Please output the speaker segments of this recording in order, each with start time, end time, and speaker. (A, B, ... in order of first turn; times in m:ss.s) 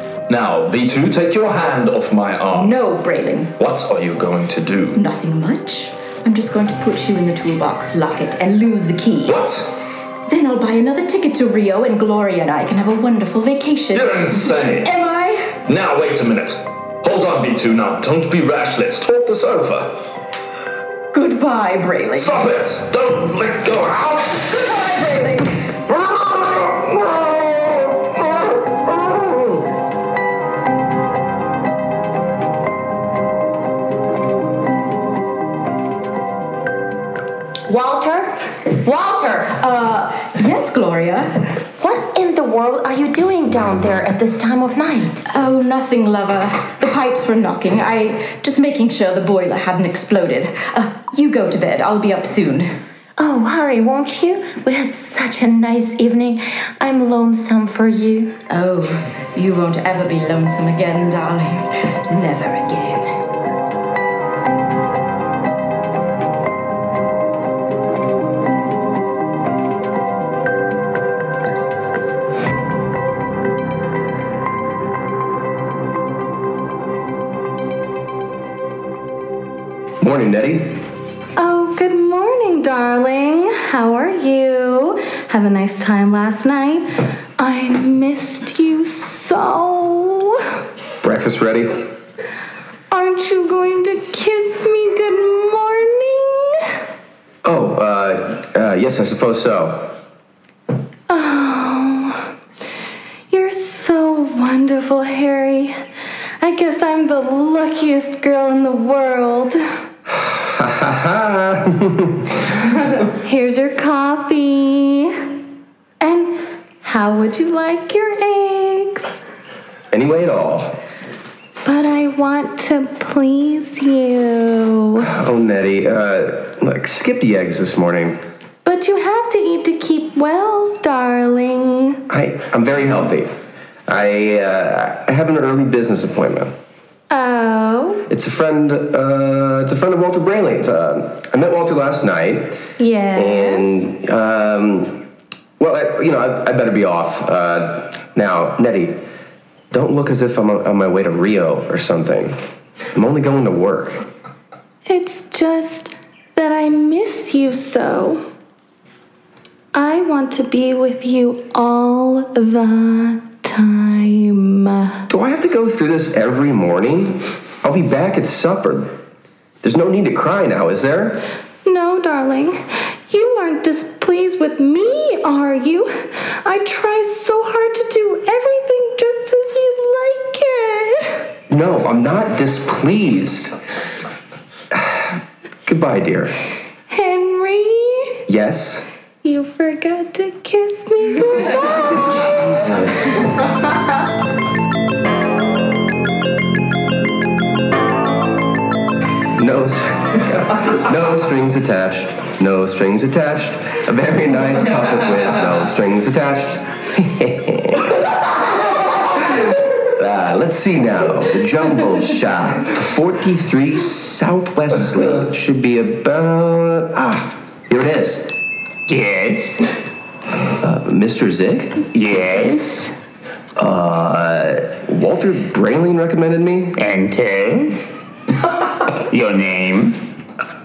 0:00.3-0:02.8 A
0:02.5-0:03.5 B
0:03.6-0:05.0 A
0:04.9-0:09.4 B
0:09.2-0:09.7 A
0:10.3-0:15.5 B
0:13.9-0:14.9 A
0:15.6-0:20.1 A
0:21.1-0:22.4 B
0:22.1-0:24.5 A
0:24.8-0:25.3 B
0:26.1-0:26.9 C
0:28.9-0:29.4 C
0:37.7-0:39.5 D
0:39.5-0:41.3 B
0:41.8-0:45.2 D
0:45.3-0:52.7 B
0:53.2-0:58.3 D
0:58.5-1:03.1 B
1:20.0-1:20.8 C
1:21.4-1:30.4 E
1:31.0-1:31.8 C
1:32.9-1:36.7 E
1:37.4-1:40.0 C
1:41.1-1:42.3 E
1:43.3-1:45.8 E
1:46.4-1:49.6 E
1:50.1-1:52.4 C
1:53.0-1:55.1 E
1:56.0-1:59.2 E
1:59.9-2:00.8 C
2:01.6-2:05.1 E
2:05.0-2:08.2 C
2:08.6-2:12.0 E
2:12.1-2:13.3 C
2:13.9-2:16.5 C
2:17.1-2:18.0 E
2:18.1-2:22.6 C
2:22.8-2:23.9 E
2:23.1-2:25.0 C
2:25.6-2:29.0 C
2:29.7-2:32.4 C
2:32.9-2:34.1 C
2:34.8-2:38.2 E
2:39.7-2:45.0 E
2:45.1-2:49.0 C
2:49.6-2:51.2 C
2:51.6-3:01.2 E
3:01.5-3:03.6 C
3:04.7-3:06.3 C
3:06.9-3:08.2 E
3:08.3-3:08.8 C
3:09.2-3:12.2 E
3:12.6-3:13.3 C
3:19.4-3:28.3 C
3:29.1-3:38.4 C
3:38.9-3:39.6 F
3:40.6-3:41.8 C
3:41.9-3:43.0 F
3:43.6-3:46.8 C
3:46.8-3:47.8 F
3:49.0-3:50.0 F